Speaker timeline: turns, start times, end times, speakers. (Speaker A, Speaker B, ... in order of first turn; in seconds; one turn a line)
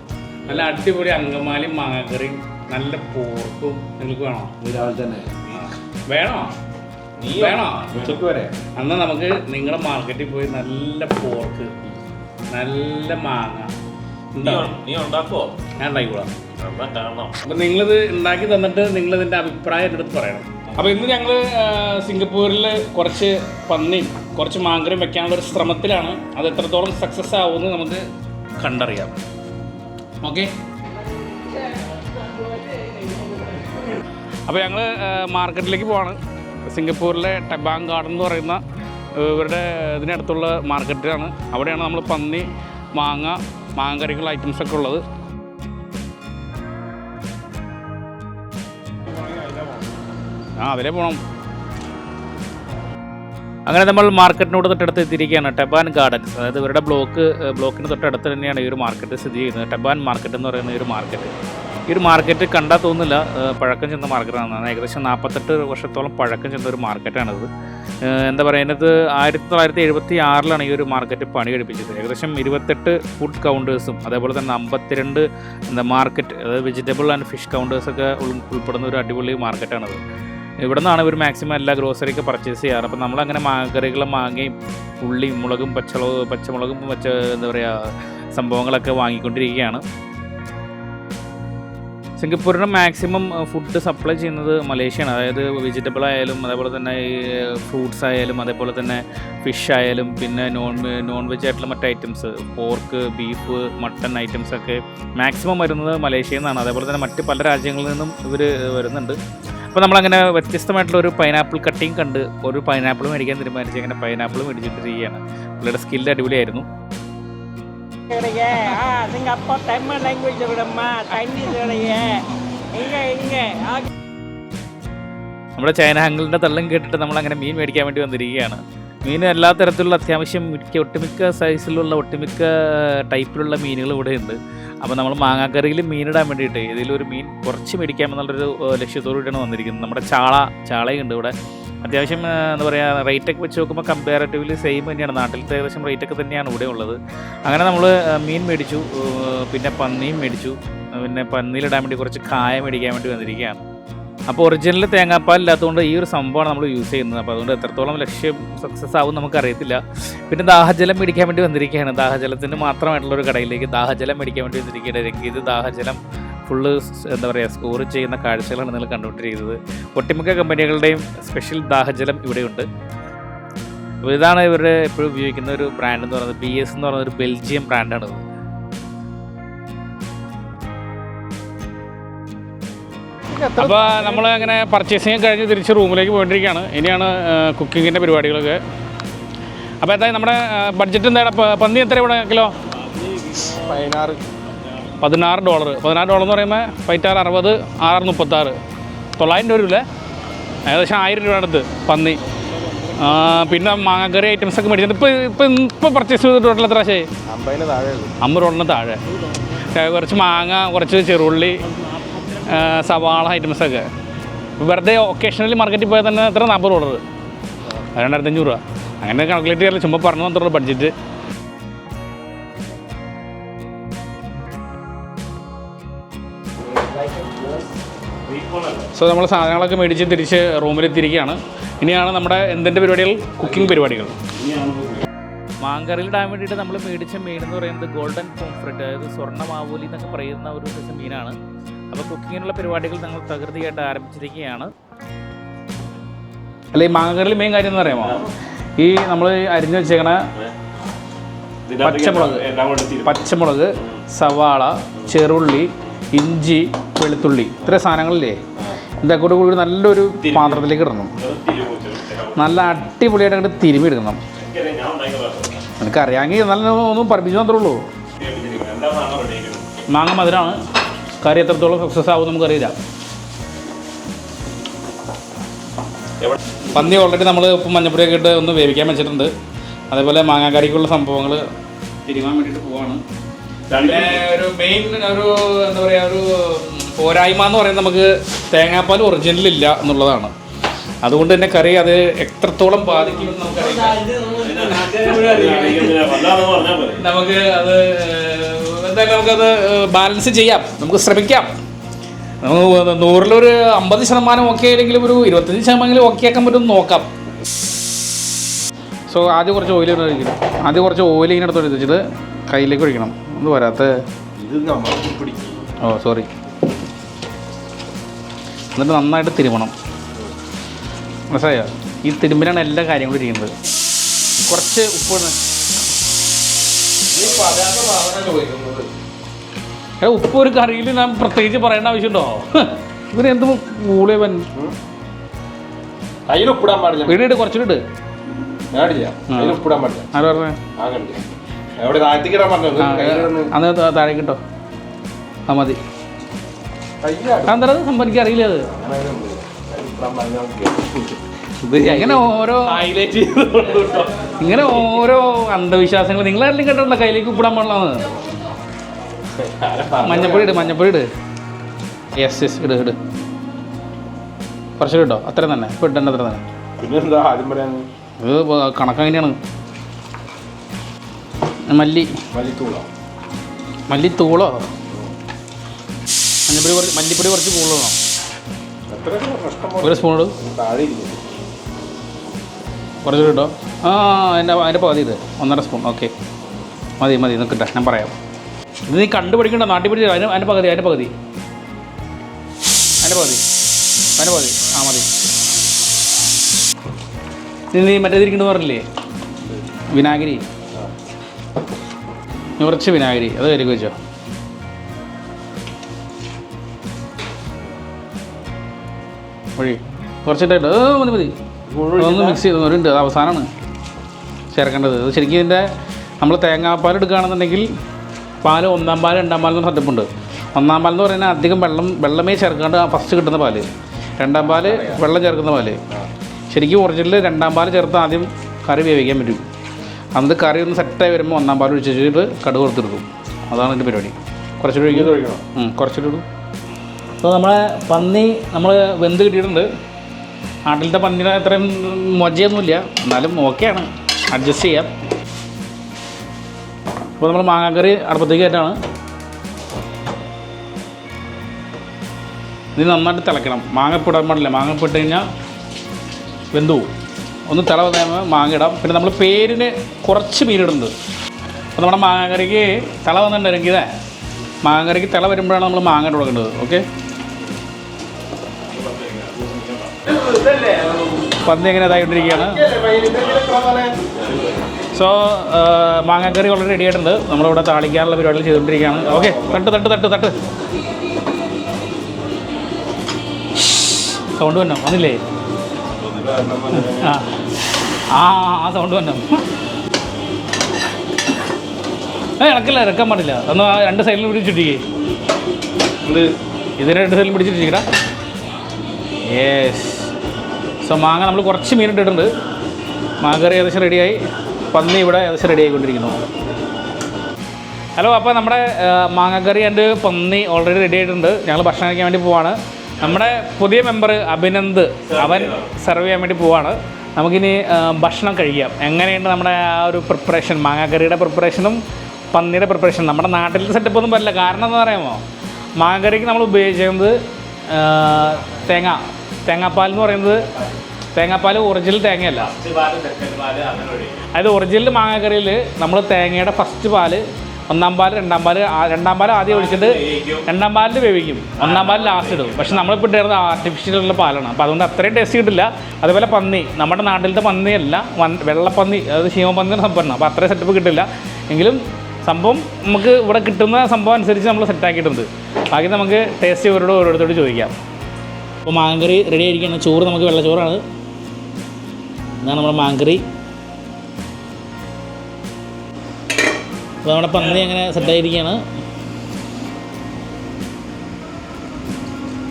Speaker A: 0.5-4.6
Speaker B: 4.6-5.5
Speaker A: 6.1-6.5
Speaker C: 7.2-8.2
Speaker A: 7.3-8.0
Speaker B: 8.0-8.6
Speaker A: 8.7-11.8
Speaker A: 12.5-13.7
Speaker A: 14.3-14.7
Speaker C: 14.4-15.6
Speaker A: 15.8-16.3
Speaker C: 16.6-17.4
Speaker A: 17.4-28.1
Speaker A: 28.6-29.2
Speaker A: 30.2-30.5
Speaker A: 34.5-38.6
Speaker A: 39.1-45.0
Speaker A: 50.6-51.2
Speaker A: 53.7-61.3
Speaker A: 61.9-67.5
Speaker A: 68.0-80.0
Speaker A: 80.6-89.8
Speaker A: 92.2-109.2
Speaker A: 109.7-116.7
Speaker D: 118.1-123.9
Speaker A: 125.5-153.6
Speaker A: 154.3-172.7
Speaker A: 174.0-178.2
Speaker B: 183.3-184.5
Speaker A: 183.6-188.6
Speaker A: 189.8-192.5
Speaker C: 193.0-193.6
Speaker B: 193.6-194.2
Speaker A: 195.0-198.6
Speaker A: 199.2-199.8
Speaker A: 200.7-202.2
Speaker A: 202.9-207.1
Speaker B: 207.3-208.2
Speaker A: 208.2-209.0
Speaker A: 209.6-211.6
Speaker A: 212.4-213.9
Speaker A: 214.6-217.0
Speaker A: 217.9-220.9
Speaker B: 227.0-227.3
Speaker C: 228.2-228.9
Speaker A: 228.9-234.2
Speaker B: 234.5-234.7
Speaker A: 235.6-241.4
Speaker A: 241.9-244.7
Speaker A: 246.7-250.2
Speaker C: 251.7-253.2
Speaker A: 251.8-252.5
Speaker A: 253.0-258.4
Speaker A: 259.0-261.1
Speaker C: 260.2-262.6
Speaker A: 262.3-264.2
Speaker C: 264.4-265.6
Speaker A: 265.8-267.8
Speaker C: 268.2-269.6
Speaker A: 269.9-270.6
Speaker A: 271.2-272.8
Speaker A: 276.7-279.3
Speaker A: 279.9-281.4
Speaker A: 282.0-283.0
Speaker C: 283.7-284.2
Speaker A: 283.8-290.3
Speaker A: 291.0-294.2
Speaker C: 293.8-297.0
Speaker A: 294.9-296.0
Speaker A: 296.9-301.5
Speaker A: 302.4-307.1
Speaker A: 309.1-314.0
Speaker B: 314.4-315.6
Speaker A: 315.8-316.3
Speaker A: 318.7-319.7
Speaker A: 321.3-323.5
Speaker A: 324.4-325.4
Speaker B: 327.1-328.9
Speaker A: 330.0-334.5
Speaker B: 336.3-337.2
Speaker A: 337.1-337.8
Speaker B: 338.7-340.1
Speaker A: 339.3-339.6
Speaker A: 340.1-340.6
Speaker B: 340.6-341.2
Speaker B: 341.8-343.5
Speaker A: 342.8-344.4
Speaker A: 345.5-345.8
Speaker B: 347.0-347.6
Speaker A: 347.4-348.7
Speaker B: 348.6-352.1
Speaker A: 351.8-352.9
Speaker C: 352.7-354.1
Speaker B: 353.1-353.9
Speaker A: 354.3-358.1
Speaker B: 359.4-360.7
Speaker A: 360.0-361.1
Speaker A: 362.1-363.0
Speaker A: 364.8-366.4
Speaker B: 366.8-367.9
Speaker A: 368.2-369.4
Speaker A: 371.7-372.1
Speaker B: 372.3-372.9
Speaker A: 373.9-374.6
Speaker A: 376.5-378.0
Speaker B: 378.9-381.2
Speaker A: 379.8-380.4
Speaker A: 383.0-386.1
Speaker A: 387.0-388.2
Speaker A: 388.9-391.1
Speaker A: 393.0-393.4
Speaker A: 394.1-395.1
Speaker A: 397.7-398.8
Speaker A: 399.9-400.4
Speaker A: 402.6-403.9
Speaker A: 409.6-411.3
Speaker B: 411.7-412.4
Speaker A: 412.0-413.5
Speaker A: 414.5-415.7
Speaker A: 416.2-417.7
Speaker A: 418.4-423.7
Speaker A: 424.2-425.8
Speaker B: 424.4-425.0
Speaker A: 426.5-429.4
Speaker A: 430.1-436.2
Speaker B: 434.9-435.4
Speaker A: 437.2-439.7
Speaker A: 440.7-444.9
Speaker A: 447.2-448.8
Speaker A: 452.8-455.2
Speaker A: 456.5-456.9
Speaker A: 457.5-460.9
Speaker A: 461.8-463.9
Speaker A: 464.6-466.9
Speaker C: 468.7-470.2
Speaker B: 470.3-470.9
Speaker A: 471.4-472.6
Speaker B: 472.2-473.9
Speaker A: 474.9-480.4
Speaker B: 478.9-479.6
Speaker A: 483.7-485.2
Speaker B: 486.0-487.2
Speaker A: 486.8-487.3
Speaker A: 488.1-489.4
Speaker A: 492.4-494.8
Speaker B: 496.0-496.3
Speaker A: 496.8-497.8
Speaker A: 499.2-500.1
Speaker A: 500.8-502.3
Speaker A: 503.2-504.2
Speaker A: 504.7-506.2
Speaker A: 508.0-521.8
Speaker C: 515.1-515.7
Speaker A: 522.3-525.2
Speaker A: 525.8-530.5
Speaker A: 531.1-532.5
Speaker C: 532.4-534.2
Speaker A: 534.3-557.8
Speaker C: 539.5-540.4
Speaker C: 541.6-542.9
Speaker A: 558.6-560.8
Speaker A: 562.4-563.2
Speaker A: 567.0-568.6